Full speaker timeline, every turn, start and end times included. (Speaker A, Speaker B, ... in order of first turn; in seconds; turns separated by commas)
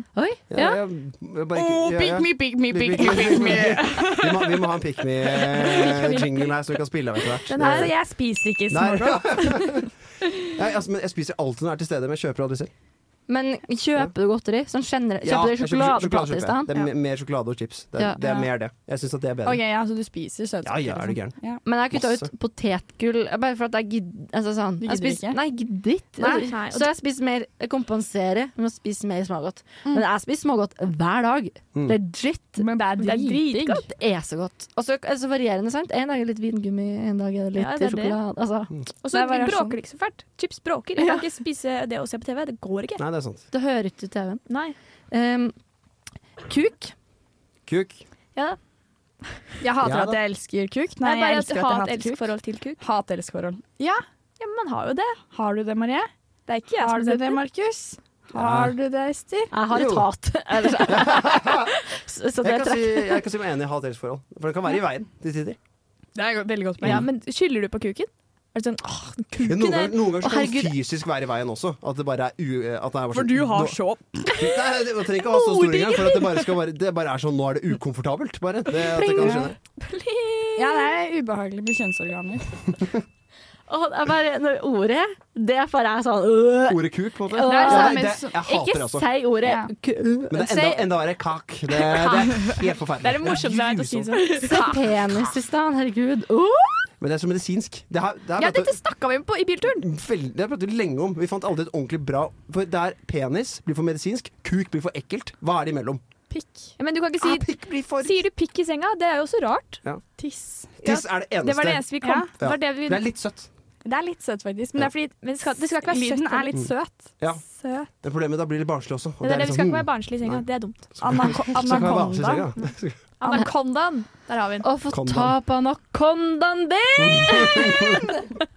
Speaker A: 0.1-0.4, Speaker B: 0.5-7.9, Speaker C: 1.5-4.7, Speaker C: 5.4-6.0, Speaker D: 5.7-6.5, Speaker D: 7.5-7.9, Speaker C: 7.5-9.8, Speaker B: 8.7-9.9, Speaker B: 10.4-12.7, Speaker A: 13.3-16.8, Speaker B: 15.2-19.6, Speaker C: 18.2-18.5, Speaker C: 19.4-21.6, Speaker B: 20.6-21.3, Speaker A: 21.6-32.6, Speaker B: 21.9-22.3, Speaker C: 24.8-25.4, Speaker D: 26.2-26.9, Speaker C: 32.6-33.8, Speaker D: 33.0-33.9, Speaker A: 33.7-38.7, Speaker D: 37.5-38.2, Speaker D: 39.0-43.0, Speaker C: 39.1-39.8, Speaker A: 41.0-41.2, Speaker B: 43.0-43.4, Speaker A: 43.5-44.4, Speaker D: 44.5-44.8, Speaker A: 45.1-45.5, Speaker A: 46.4-46.9, Speaker B: 47.7-48.0, Speaker C: 49.6-54.0, Speaker B: 49.8-50.2, Speaker D: 51.0-52.8, Speaker D: 54.4-55.2, Speaker C: 55.3-56.1, Speaker D: 56.5-57.4, Speaker C: 56.8-59.5, Speaker B: 58.3-58.8, Speaker A: 59.5-63.2, Speaker B: 59.7-60.0, Speaker B: 60.9-61.7, Speaker B: 62.4-65.6, Speaker C: 66.1-67.0, Speaker D: 66.8-70.0, Speaker B: 69.4-79.6, Speaker A: 70.2-70.7, Speaker C: 73.1-74.6, Speaker C: 75.5-76.3, Speaker A: 79.0-79.4, Speaker D: 79.1-81.0, Speaker C: 79.2-79.5, Speaker C: 80.6-82.6, Speaker A: 83.7-91.0, Speaker B: 86.7-89.1, Speaker C: 87.5-88.4, Speaker C: 89.4-89.7, Speaker B: 90.3-94.1, Speaker D: 92.0-94.9, Speaker C: 94.2-94.7, Speaker A: 94.4-96.9, Speaker B: 97.0-98.8, Speaker D: 98.4-99.9, Speaker B: 99.8-106.0, Speaker C: 106.3-106.7, Speaker D: 106.8-109.8, Speaker B: 107.2-108.2, Speaker C: 110.2-110.7, Speaker B: 110.8-113.5, Speaker D: 110.8-113.0, Speaker C: 112.0-112.3, Speaker C: 113.8-117.9, Speaker D: 115.0-116.5, Speaker B: 116.5-117.4, Speaker B: 118.0-123.0, Speaker D: 119.2-121.3, Speaker C: 121.0-122.5, Speaker D: 123.2-124.7, Speaker A: 124.6-128.3, Speaker B: 124.9-125.3, Speaker B: 127.0-128.0